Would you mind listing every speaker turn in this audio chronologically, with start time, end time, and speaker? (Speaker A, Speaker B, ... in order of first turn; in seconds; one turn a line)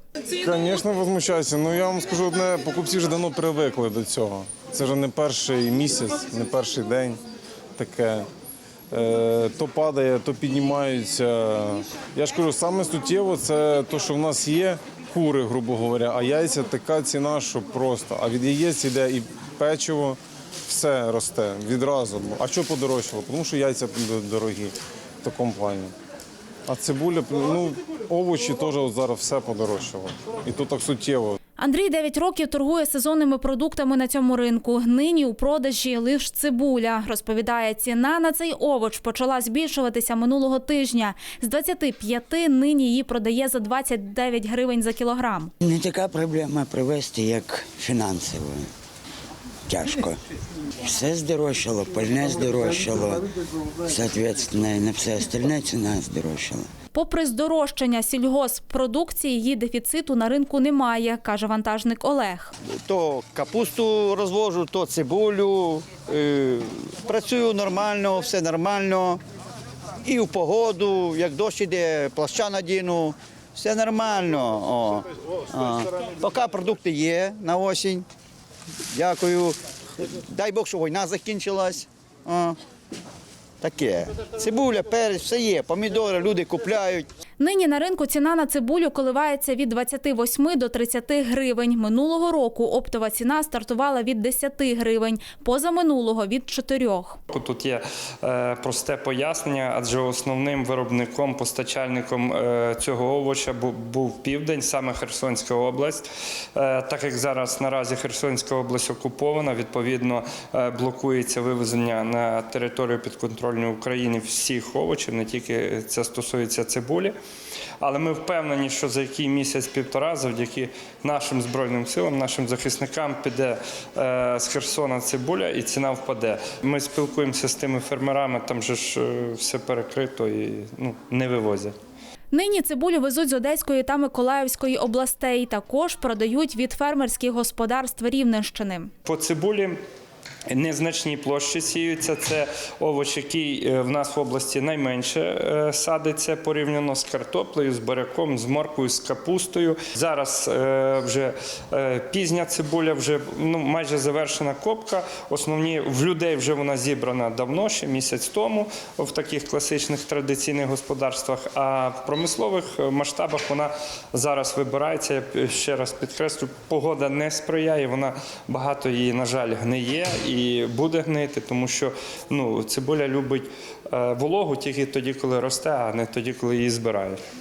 Speaker A: 0.3-7.2
Speaker A: 7.8-8.3
Speaker A: 8.9-25.9
Speaker A: 26.7-31.4
Speaker B: 31.6-45.5
Speaker C: 45.6-48.7
Speaker C: 49.7-50.2
Speaker C: 50.8-53.3
Speaker C: 53.8-56.7
Speaker B: 56.9-62.5
Speaker D: 62.8-69.2
Speaker D: 70.0-78.0
Speaker D: 78.9-82.6
Speaker D: 83.6-87.1
Speaker B: 87.4-97.2
Speaker E: 97.3-117.2
Speaker E: 117.8-131.7
Speaker B: 132.3-138.9
Speaker E: 139.1-139.8
Speaker E: 140.5-177.2